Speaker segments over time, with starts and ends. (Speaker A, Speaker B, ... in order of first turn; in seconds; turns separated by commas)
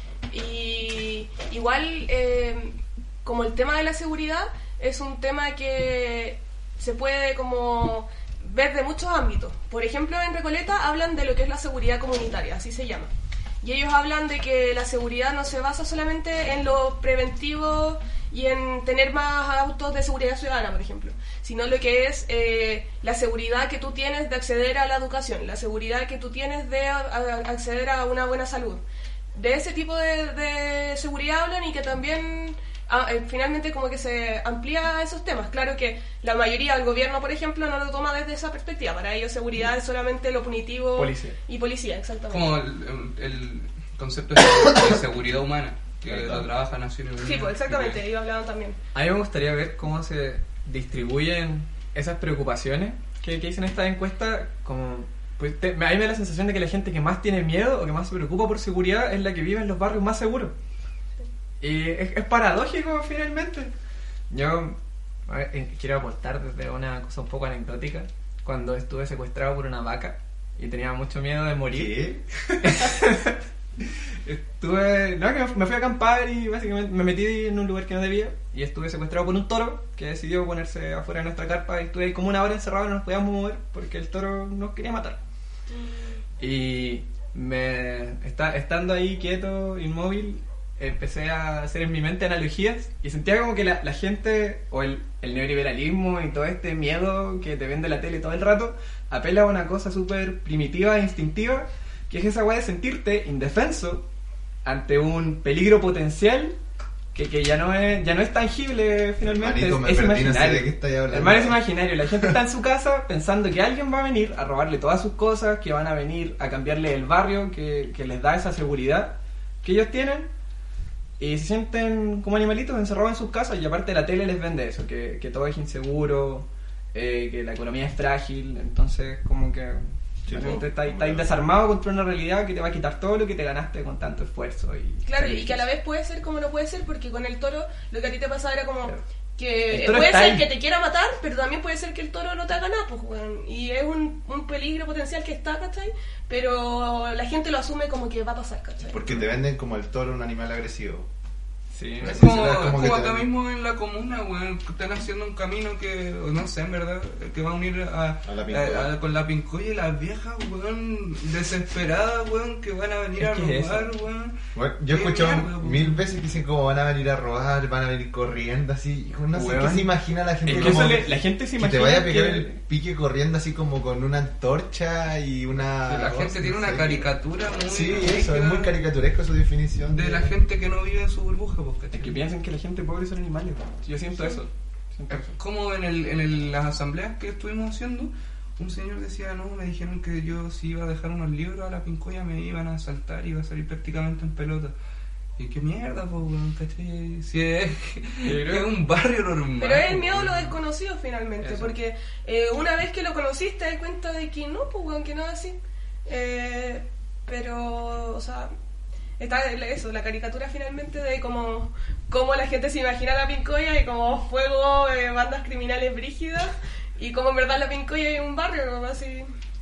Speaker A: 0.3-13.1, Speaker A: 13.6-28.8, Speaker A: 29.3-42.5, Speaker B: 41.0-41.4, Speaker C: 42.3-48.0, Speaker D: 46.1-46.5, Speaker A: 47.2-48.8, Speaker B: 48.9-60.5, Speaker B: 61.6-63.7, Speaker B: 64.3-72.0, Speaker D: 71.7-72.2, Speaker B: 72.6-85.2, Speaker A: 85.7-86.2, Speaker B: 86.4-104.0, Speaker B: 104.6-106.6, Speaker B: 107.1-120.3, Speaker D: 109.2-111.6, Speaker B: 121.2-135.7, Speaker D: 130.2-131.3, Speaker A: 135.1-149.0, Speaker B: 139.7-140.5, Speaker D: 148.9-151.1, Speaker B: 151.7-152.2, Speaker D: 152.0-153.3, Speaker C: 152.2-164.3, Speaker D: 158.2-158.9, Speaker B: 163.2-163.9, Speaker D: 164.5-177.1, Speaker C: 164.9-166.0, Speaker B: 169.3-172.6, Speaker C: 170.4-171.0, Speaker C: 175.9-178.8, Speaker D: 177.7-180.3, Speaker C: 179.9-182.2, Speaker B: 181.9-185.3, Speaker A: 184.1-184.4, Speaker C: 185.1-194.7, Speaker C: 195.4-200.6, Speaker B: 198.2-198.7, Speaker A: 199.6-208.5, Speaker B: 201.4-201.8, Speaker A: 209.2-219.3